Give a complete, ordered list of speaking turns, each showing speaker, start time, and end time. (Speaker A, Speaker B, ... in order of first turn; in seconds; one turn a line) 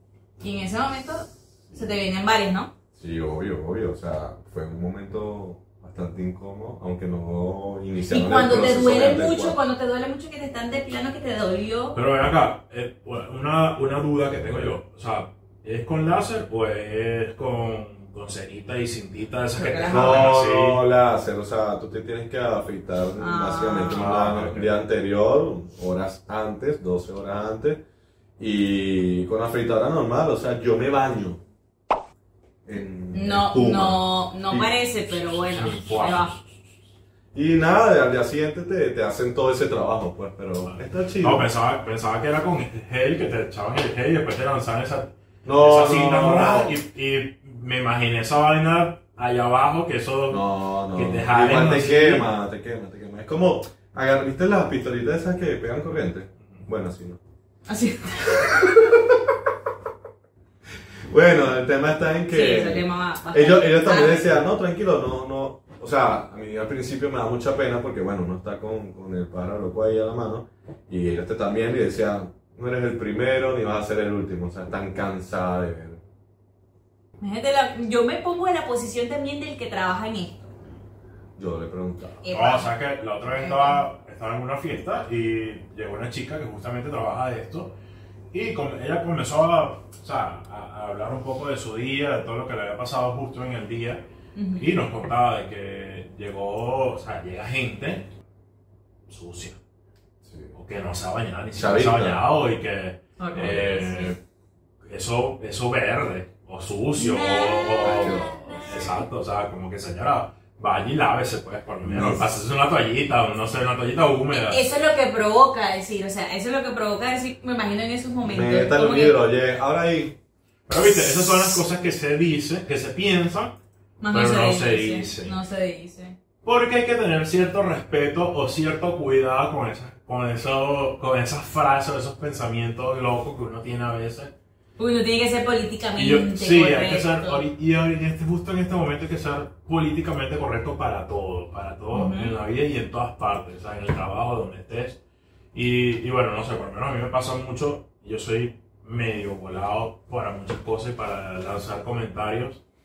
Speaker A: 0.4-2.7
Speaker B: 2.9-9.6
Speaker A: 8.1-12.0
Speaker C: 11.9-20.8
Speaker B: 14.3-14.8
Speaker A: 19.5-20.3
Speaker B: 19.9-27.8
Speaker A: 23.2-24.1
Speaker C: 23.9-24.7
Speaker B: 28.4-31.4
Speaker B: 32.6-34.7
Speaker A: 33.1-36.4
Speaker C: 35.5-36.5
Speaker B: 37.3-41.5
Speaker C: 40.6-52.3
Speaker B: 45.4-46.8
Speaker B: 50.3-57.2
Speaker A: 57.7-58.5
Speaker B: 58.4-59.3
Speaker B: 61.1-76.0
Speaker A: 62.3-64.4
Speaker A: 77.2-80.5
Speaker B: 81.4-82.2
Speaker A: 82.2-82.7
Speaker C: 82.3-87.7
Speaker A: 83.3-83.8
Speaker C: 88.3-98.1
Speaker A: 94.3-94.7
Speaker C: 99.1-99.6
Speaker B: 100.2-100.5
Speaker C: 100.5-104.2
Speaker B: 101.5-102.2
Speaker A: 103.2-104.1
Speaker C: 104.8-114.7
Speaker A: 107.0-109.0
Speaker B: 107.8-108.7
Speaker B: 111.8-112.3
Speaker A: 114.3-119.2
Speaker B: 118.2-120.2
Speaker C: 120.7-123.6
Speaker A: 124.0-126.2
Speaker C: 124.1-125.3
Speaker C: 126.4-134.3
Speaker A: 134.8-137.4
Speaker C: 136.0-145.0
Speaker A: 141.9-142.3
Speaker C: 145.5-152.6